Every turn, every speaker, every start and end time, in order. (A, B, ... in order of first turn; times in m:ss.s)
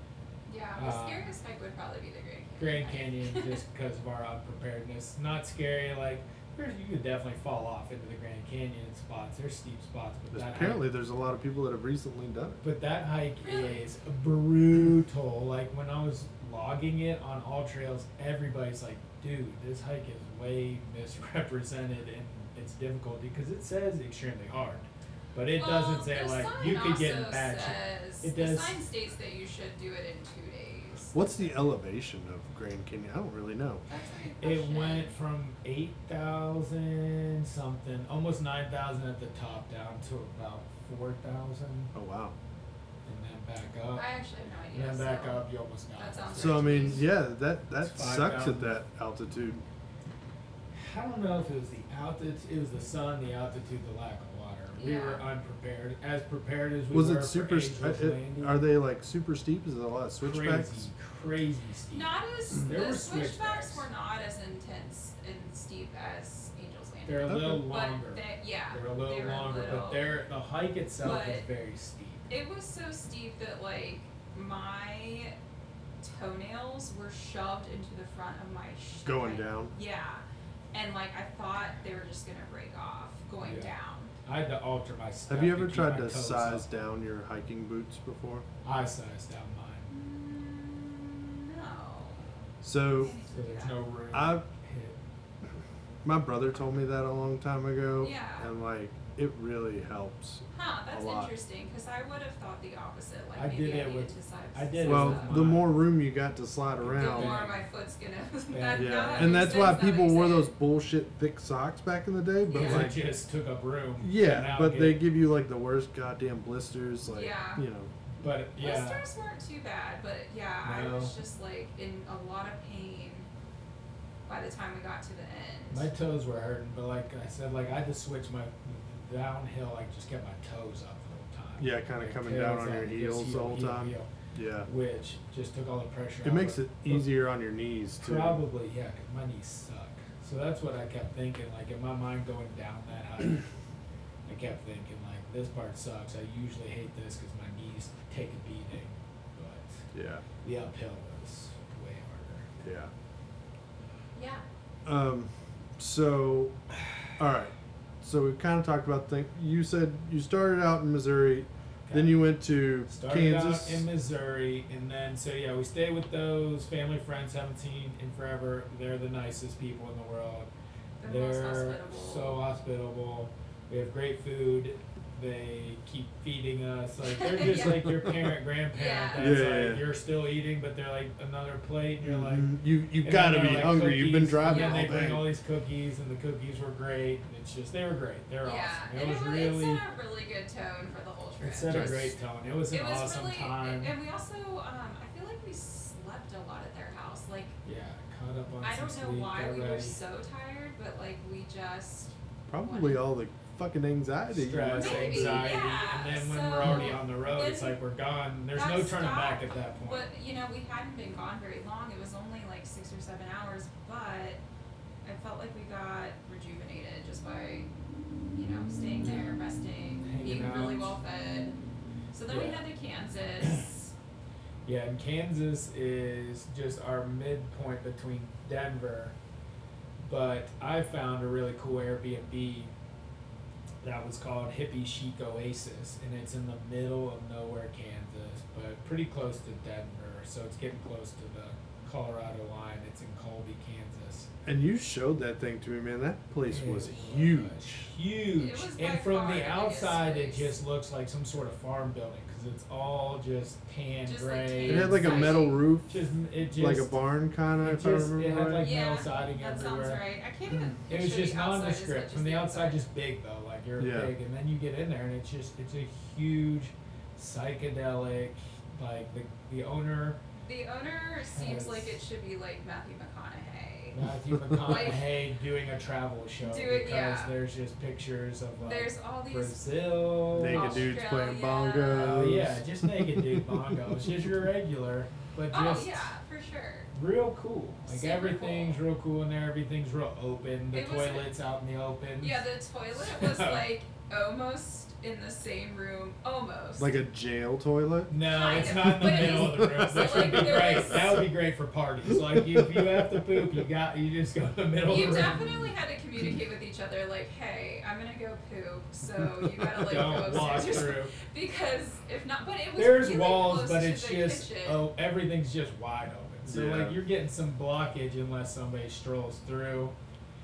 0:00.5-0:03.6 A
0:00.8-0:01.3 B
0:02.6-0:10.8 B
0:10.3-0:12.6 C
0:12.6-0:28.8 B
0:13.4-0:13.9 A
0:25.6-0:31.2 A
0:31.1-0:33.8 C
0:33.9-0:35.1 A
0:34.4-0:41.9 B
0:41.9-0:42.4 C
0:43.0-0:44.1 B
0:43.9-0:47.0 A
0:44.7-0:47.1 B
0:46.4-0:49.6 C
0:47.8-0:48.8 B
0:50.7-0:58.7 B
0:54.8-0:55.2 A
0:56.9-1:00.9 C
1:00.2-1:03.9 B
1:01.9-1:10.0 A
1:07.1-1:12.3 B
1:07.3-1:07.6 C
1:11.0-1:11.5 A
1:12.3-1:15.4 A
1:16.0-1:24.1 A
1:19.0-1:19.7 C
1:23.4-1:23.7 B
1:24.2-1:26.6 B
1:25.3-1:28.4 C
1:28.6-1:29.9 B
1:29.9-1:32.4 A
1:32.6-1:33.1 C
1:32.9-1:33.8 A
1:33.3-1:35.0 B
1:34.1-1:34.5 C
1:36.0-1:41.3 C
1:38.0-1:38.5 A
1:40.5-1:45.4 A
1:43.4-1:45.7 B
1:44.9-1:47.4 C
1:46.8-1:47.6 B
1:46.9-1:50.5 A
1:48.5-1:49.5 B
1:48.8-1:53.0 C
1:52.5-1:52.9 A
1:52.5-1:55.0 B
1:54.0-1:57.9 C
1:57.1-1:57.6 A
1:58.1-1:59.0 B
1:58.6-2:03.3 A
2:00.6-2:01.2 B
2:04.3-2:05.9 A
2:05.7-2:14.1 B
2:11.6-2:14.7 C
2:14.6-2:17.1 B
2:16.2-2:18.4 C
2:18.0-2:23.5 B
2:24.3-2:32.5 B
2:29.9-2:30.2 C
2:32.6-2:32.9 C
2:34.2-2:34.4 A
2:34.8-2:43.9 C
2:41.9-2:42.2 B
2:42.9-2:50.5 B
2:51.0-2:52.4 A
2:51.0-3:09.8 B
2:57.1-2:58.1 A
2:58.7-2:59.3 A
2:59.2-2:59.8 C
3:02.0-3:05.2 C
3:04.4-3:04.9 A
3:08.4-3:12.0 A
3:11.4-3:13.9 B
3:11.7-3:12.1 C
3:12.7-3:17.6 A
3:17.6-3:20.0 B
3:18.6-3:23.0 A
3:22.5-3:25.6 C
3:24.3-3:30.1 B
3:24.8-3:27.8 A
3:28.6-3:34.4 A
3:35.0-3:37.7 A
3:38.3-3:41.6 A
3:40.0-3:41.0 B
3:42.1-3:43.9 A
3:42.3-3:42.6 B
3:43.4-3:43.7 B
3:44.6-3:49.2 B
3:50.0-3:52.7 B
3:53.8-4:04.3 B
4:04.5-4:07.9 C
4:06.5-4:17.0 B
4:08.4-4:10.5 A
4:14.1-4:15.6 A
4:14.6-4:15.9 C
4:16.6-4:18.7 C
4:17.6-4:20.0 B
4:18.6-4:22.8 A
4:20.9-4:30.2 B
4:23.8-4:24.1 C
4:30.4-4:34.0 A
4:31.3-4:32.0 B
4:33.9-4:41.0 B
4:34.5-4:34.9 C
4:34.7-4:35.1 A
4:36.4-4:37.3 A
4:38.6-4:39.7 A
4:40.3-4:44.2 C
4:40.5-4:42.3 A
4:41.9-4:46.2 B
4:45.5-4:46.9 A
4:46.9-4:52.4 B
4:47.9-4:48.8 A
4:50.7-4:51.3 A
4:52.2-4:57.0 A
4:53.0-4:53.6 B
4:56.8-5:01.3 C
4:58.1-5:05.4 B
4:58.2-5:01.2 A
5:02.1-5:03.1 C
5:04.9-5:14.8 A
5:09.2-5:10.2 C
5:09.9-5:11.1 B
5:12.8-5:20.0 B
5:16.4-5:17.0 C